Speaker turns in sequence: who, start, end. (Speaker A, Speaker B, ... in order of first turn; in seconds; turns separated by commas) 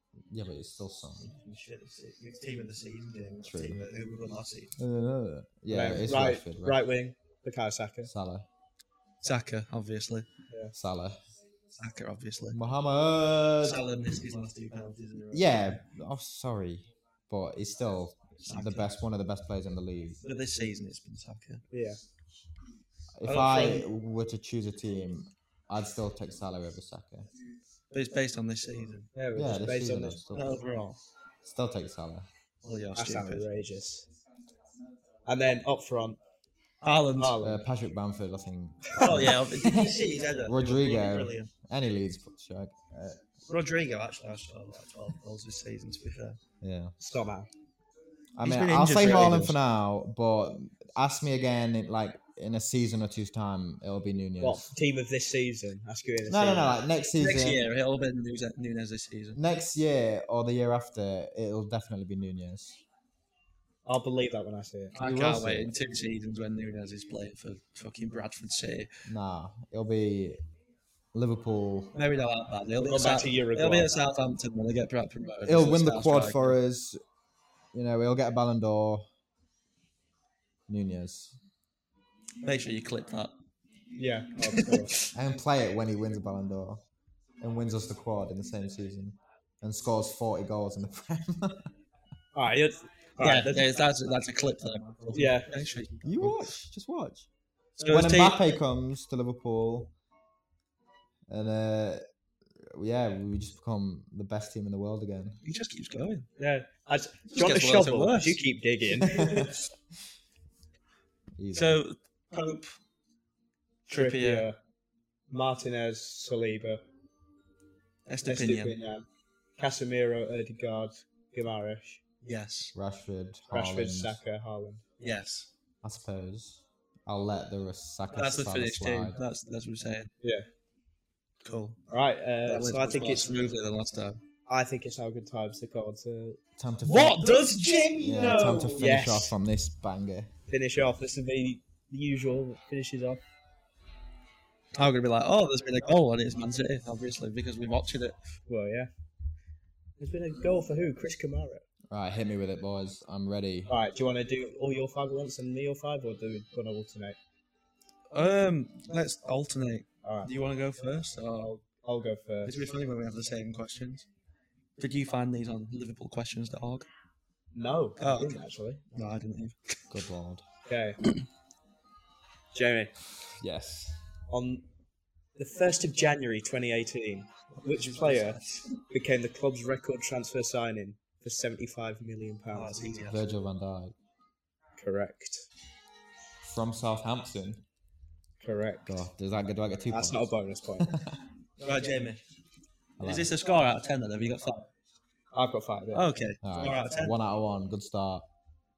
Speaker A: 0.3-1.3, Speaker B: 1.2-4.8, Speaker A: 3.4-3.9, Speaker A: 4.8-6.8, Speaker C: 5.7-8.1, Speaker A: 8.1-8.5, Speaker B: 9.2-10.3, Speaker C: 10.5-10.8, Speaker A: 10.8-11.2, Speaker B: 11.7-12.6, Speaker A: 12.5-13.8, Speaker B: 13.6-15.8, Speaker A: 15.3-20.2, Speaker B: 18.5-18.9, Speaker B: 20.2-21.6, Speaker C: 21.7-22.0, Speaker A: 23.1-27.3, Speaker B: 23.2-23.9, Speaker B: 27.9-29.1, Speaker C: 29.1-30.2, Speaker A: 29.3-30.6, Speaker B: 30.3-31.0, Speaker A: 31.4-32.3, Speaker B: 32.6-33.4, Speaker C: 32.9-34.0, Speaker C: 35.2-36.2, Speaker B: 36.8-37.4, Speaker C: 37.1-37.6, Speaker A: 37.4-43.2, Speaker B: 38.9-41.5, Speaker B: 43.5-46.4, Speaker A: 46.6-46.9, Speaker C: 47.0-47.5, Speaker A: 48.4-54.7, Speaker B: 48.4-49.6, Speaker C: 54.4-56.8, Speaker A: 56.3-57.6, Speaker B: 57.2-59.4, Speaker A: 59.3-62.8, Speaker C: 63.9-64.9, Speaker B: 64.9-68.9, Speaker A: 65.0-65.7, Speaker A: 69.0-70.4, Speaker A: 71.1-72.0, Speaker B: 71.9-76.5, Speaker C: 72.8-73.9, Speaker A: 75.4-77.0, Speaker A: 77.7-79.1, Speaker A: 80.7-81.4, Speaker B: 82.4-83.4, Speaker C: 84.0-84.9, Speaker B: 84.5-85.1, Speaker A: 85.1-86.8, Speaker A: 87.4-91.7, Speaker C: 92.3-93.6, Speaker B: 93.2-96.4, Speaker C: 95.1-95.5, Speaker A: 96.0-97.3, Speaker B: 97.8-98.5, Speaker A: 97.9-99.9, Speaker A: 101.3-102.0, Speaker A: 102.6-105.4, Speaker B: 105.4-106.3, Speaker C: 106.4-109.5, Speaker B: 107.3-108.4, Speaker B: 109.0-109.6, Speaker A: 109.1-109.5, Speaker A: 111.4-111.8, Speaker B: 111.5-112.8, Speaker B: 113.9-114.5, Speaker C: 113.9-114.6, Speaker C: 115.3-116.8, Speaker B: 118.0-118.7, Speaker C: 118.2-119.0, Speaker C: 119.6-122.0, Speaker B: 122.2-122.7, Speaker A: 122.7-124.2, Speaker C: 123.5-124.9, Speaker B: 125.0-125.5, Speaker A: 125.8-129.2, Speaker B: 128.1-130.1, Speaker C: 130.2-130.5, Speaker B: 131.4-131.8, Speaker C: 131.9-133.6, Speaker B: 132.4-134.2, Speaker C: 134.5-136.4, Speaker A: 136.6-137.3, Speaker B: 136.8-138.9, Speaker A: 138.0-140.3, Speaker C: 138.6-139.3, Speaker C: 140.5-143.2, Speaker B: 144.7-148.2, Speaker C: 148.5-148.9, Speaker C: 150.0-151.6, Speaker A: 151.9-153.7, Speaker C: 153.7-157.2, Speaker B: 158.1-161.7, Speaker C: 160.0-160.3, Speaker C: 161.8-162.5, Speaker B: 162.4-164.1, Speaker B: 164.8-166.9, Speaker C: 167.5-168.9, Speaker B: 168.0-168.4, Speaker B: 168.9-169.7, Speaker A: 169.9-170.4, Speaker C: 170.7-171.0, Speaker C: 172.5-172.9, Speaker A: 173.4-174.0, Speaker C: 174.3-174.6, Speaker C: 175.4-178.4, Speaker B: 177.6-178.8, Speaker C: 178.9-183.1, Speaker B: 182.5-183.2, Speaker A: 183.1-183.9, Speaker C: 184.8-185.5, Speaker A: 186.4-187.6, Speaker C: 188.4-189.1, Speaker A: 188.9-191.2, Speaker C: 189.9-190.9, Speaker B: 191.6-192.2, Speaker A: 193.0-193.3, Speaker B: 193.0-194.7, Speaker C: 195.3-196.1, Speaker B: 195.9-197.2, Speaker A: 196.4-198.2